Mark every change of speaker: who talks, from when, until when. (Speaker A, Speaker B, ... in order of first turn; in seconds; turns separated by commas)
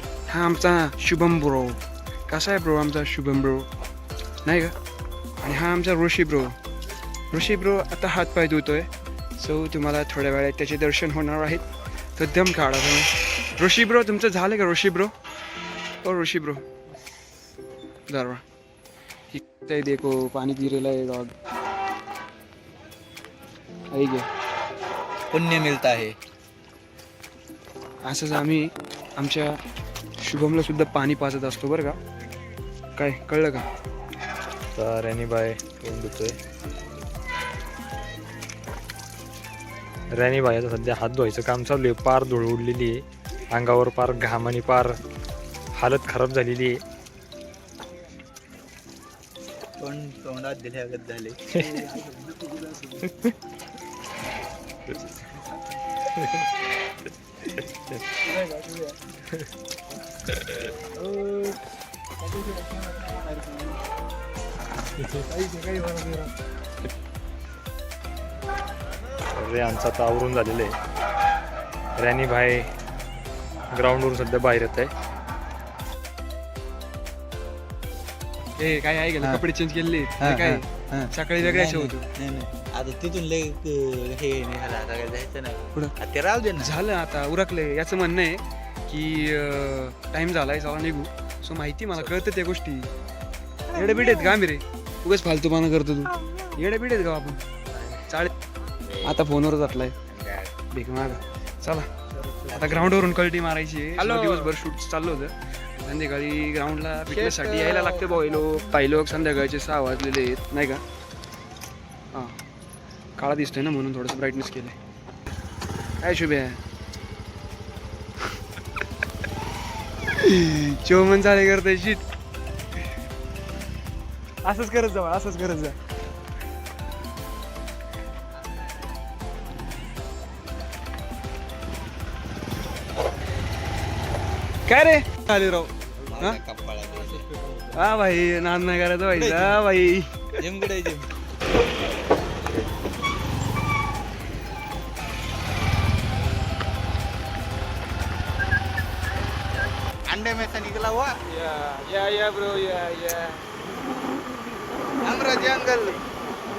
Speaker A: 0.3-3.7, Speaker A: 4.5-4.8, Speaker A: 5.4-6.6, Speaker A: 7.3-15.1, Speaker A: 16.0-16.6, Speaker A: 18.1-18.4, Speaker A: 19.3-21.3, Speaker A: 23.9-24.3, Speaker B: 25.3-26.1, Speaker A: 28.0-29.6, Speaker A: 30.2-32.0, Speaker A: 33.0-33.7, Speaker C: 34.8-36.4, Speaker C: 40.1-45.0, Speaker C: 45.8-46.8, Speaker B: 49.8-51.4, Speaker A: 51.6-53.2, Speaker A: 55.0-55.6, Speaker C: 56.2-56.5, Speaker A: 58.1-59.1, Speaker A: 61.0-61.6, Speaker A: 62.2-63.8, Speaker A: 65.1-66.3, Speaker C: 69.4-70.7, Speaker C: 72.0-72.7, Speaker C: 73.7-74.9, Speaker A: 78.6-82.1, Speaker B: 80.2-86.7, Speaker A: 86.6-92.9, Speaker B: 92.0-92.3, Speaker A: 93.7-97.4, Speaker A: 98.1-98.3, Speaker B: 98.8-99.2, Speaker A: 99.0-100.0, Speaker B: 100.1-100.5, Speaker A: 100.7-101.9, Speaker C: 102.2-102.6, Speaker B: 102.5-103.0, Speaker A: 102.5-110.8, Speaker B: 107.1-108.5, Speaker A: 112.1-112.4, Speaker A: 113.2-114.8, Speaker A: 116.0-116.6, Speaker A: 120.1-122.0, Speaker A: 124.4-125.8, Speaker A: 134.7-136.4, Speaker B: 136.1-137.7, Speaker A: 137.7-140.4, Speaker B: 139.2-139.6, Speaker B: 140.4-141.1, Speaker B: 150.1-151.2, Speaker A: 151.4-153.4, Speaker B: 155.0-156.0